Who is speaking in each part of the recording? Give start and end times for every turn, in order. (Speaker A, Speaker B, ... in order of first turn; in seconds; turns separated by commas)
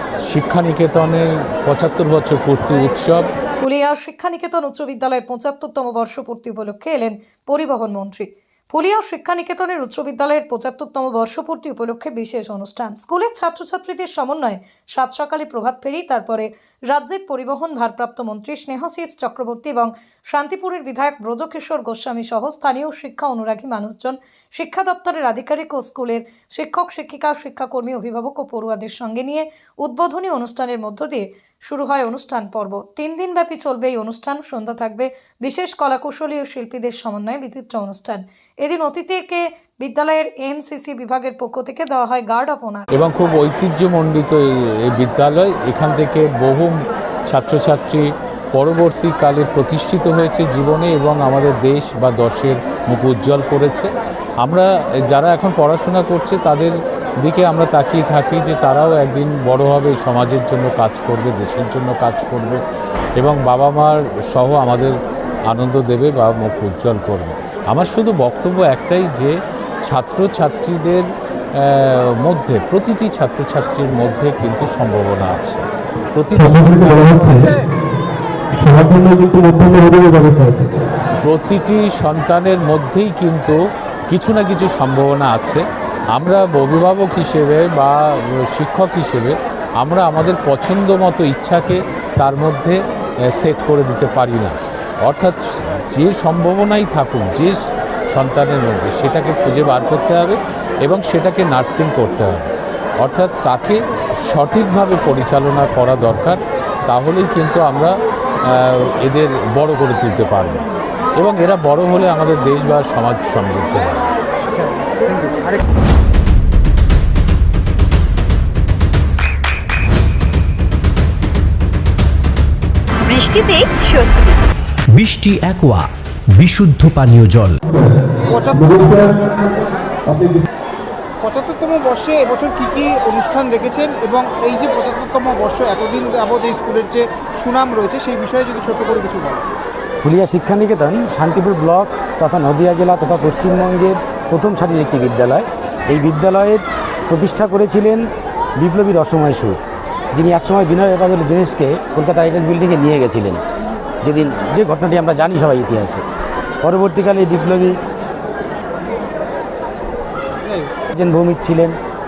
Speaker A: 0.2-3.3, Speaker B: 3.6-42.9, Speaker A: 42.9-46.7, Speaker A: 47.3-53.9, Speaker A: 54.4-62.6, Speaker A: 63.2-65.0, Speaker A: 65.5-69.3, Speaker A: 69.9-71.1, Speaker A: 71.6-75.6, Speaker A: 76.1-77.5, Speaker A: 81.2-83.6, Speaker A: 84.1-85.6, Speaker A: 86.1-92.8, Speaker A: 93.3-97.6, Speaker A: 98.1-102.5, Speaker A: 103.0-107.9, Speaker A: 108.5-110.6, Speaker A: 111.2-114.0, Speaker C: 114.5-115.6, Speaker D: 124.9-127.5, Speaker C: 128.3-129.6, Speaker C: 131.2-139.4, Speaker E: 140.0-148.0, Speaker E: 148.6-149.6, Speaker E: 150.1-153.4, Speaker E: 154.0-156.0, Speaker E: 156.6-157.8, Speaker E: 161.0-161.7